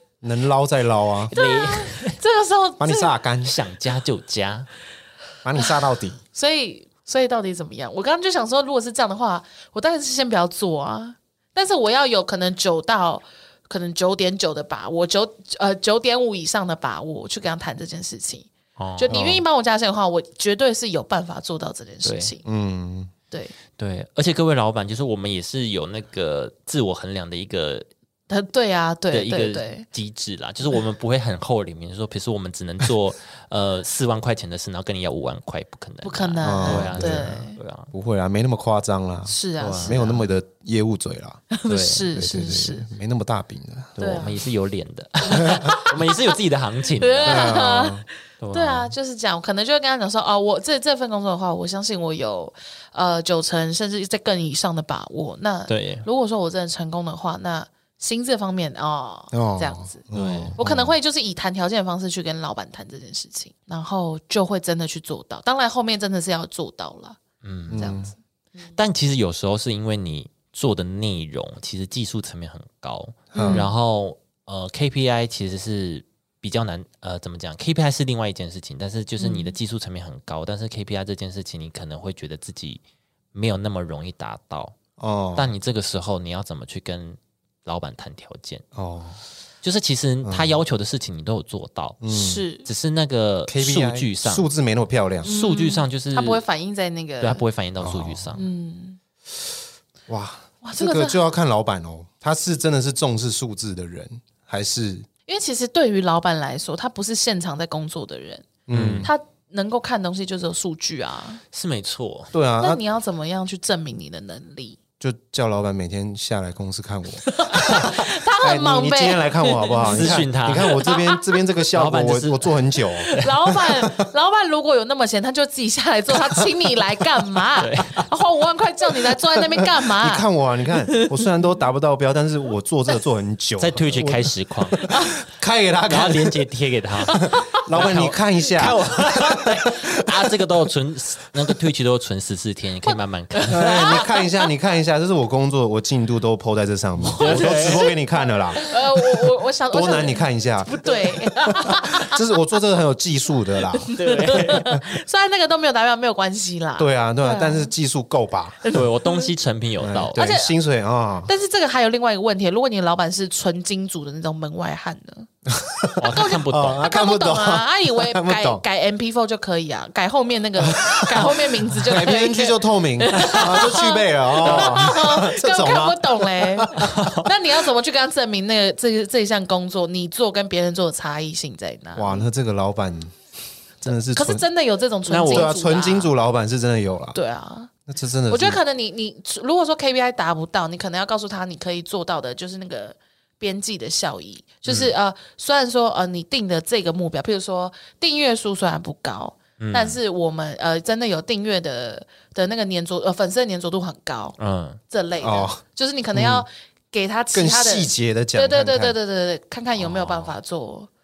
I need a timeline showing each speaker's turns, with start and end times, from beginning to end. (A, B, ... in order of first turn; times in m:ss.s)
0:00.2-0:01.3 A
0:01.3-0:02.2 B
0:01.3-0:03.1 C
0:02.8-0:03.6 A
0:03.4-0:04.7 B
0:05.4-0:06.2 A
0:06.3-0:22.4 C
0:18.8-0:19.2 B
0:19.1-0:19.4 A
0:22.0-0:22.3 B
0:22.4-0:23.1 A
0:23.8-0:27.9 B
0:28.3-0:29.8 C
0:29.1-0:37.9 B
0:36.0-0:37.6 C
0:36.4-0:37.3 A
0:37.9-0:41.4 A
0:39.2-0:40.2 C
0:39.6-0:40.2 B
0:41.5-0:42.9 C
0:41.7-0:42.1 B
0:42.1-0:44.2 A
0:44.0-0:47.6 B
0:44.0-0:44.4 C
0:45.3-0:46.3 C
0:47.0-1:07.2 C
0:47.2-0:48.0 A
0:48.4-0:48.9 B
0:55.7-0:56.0 B
0:59.3-1:00.9 A
1:00.1-1:00.6 B
1:07.4-1:08.0 B
1:07.7-1:08.1 A
1:07.7-1:08.1 C
1:08.7-1:22.8 B
1:13.3-1:13.7 A
1:13.3-1:13.7 C
1:19.2-1:19.5 C
1:23.3-1:24.7 B
1:25.0-1:25.5 A
1:25.4-1:28.6 B
1:28.7-1:29.2 A
1:29.6-1:34.5 B
1:30.2-1:30.6 A
1:32.0-1:32.4 A
1:32.1-1:32.7 C
1:33.5-1:35.3 A
1:35.2-1:36.4 B
1:35.2-1:37.4 C
1:37.2-1:38.4 B
1:37.8-1:38.3 A
1:38.3-1:39.0 C
1:40.1-1:45.0 A
1:40.6-1:41.2 C
1:45.3-1:48.5 C
1:48.7-1:49.1 A
1:48.7-1:49.1 B
1:49.0-1:51.4 C
1:51.5-1:52.3 B
1:52.3-1:52.8 A
1:52.6-1:54.8 C
1:55.0-2:03.8 A
1:57.2-2:01.2 C
1:59.8-2:00.8 B
2:01.7-2:03.3 B
2:03.1-2:10.2 C
2:07.6-2:08.1 B
2:09.8-2:16.4 A
2:10.9-2:11.2 C
2:13.6-2:14.8 B
2:14.9-2:15.2 C
2:15.9-2:24.0 B
2:17.1-2:17.6 C
2:17.1-2:20.4 A
2:22.8-2:24.4 C
2:23.5-2:28.6 A
2:27.1-2:27.9 B
2:27.1-2:32.2 C
2:29.7-2:30.9 A
2:31.6-2:34.8 A
2:33.8-2:37.7 C
2:33.9-2:34.7 B
2:36.8-2:38.8 A
2:38.6-2:39.3 C
2:38.7-2:40.2 B
2:39.8-2:41.3 A
2:40.1-2:40.5 C
2:41.2-2:45.3 C
2:45.5-2:48.6 A
2:46.0-2:46.9 B
2:46.1-3:02.3 C
2:50.6-2:57.0 A
2:53.2-2:53.5 B
2:54.4-2:55.0 B
2:56.8-2:57.3 B
3:02.0-3:03.1 A
3:03.8-3:06.1 C
3:03.8-3:04.4 A
3:05.1-3:05.5 B
3:05.2-3:07.2 A
3:07.1-3:07.7 C
3:07.8-3:08.6 A
3:08.3-3:24.4 C
3:19.6-3:20.0 B
3:24.4-3:24.8 B
3:24.9-3:30.9 C
3:25.2-3:25.6 A
3:26.1-3:26.4 A
3:27.3-3:29.0 A
3:29.8-3:30.3 B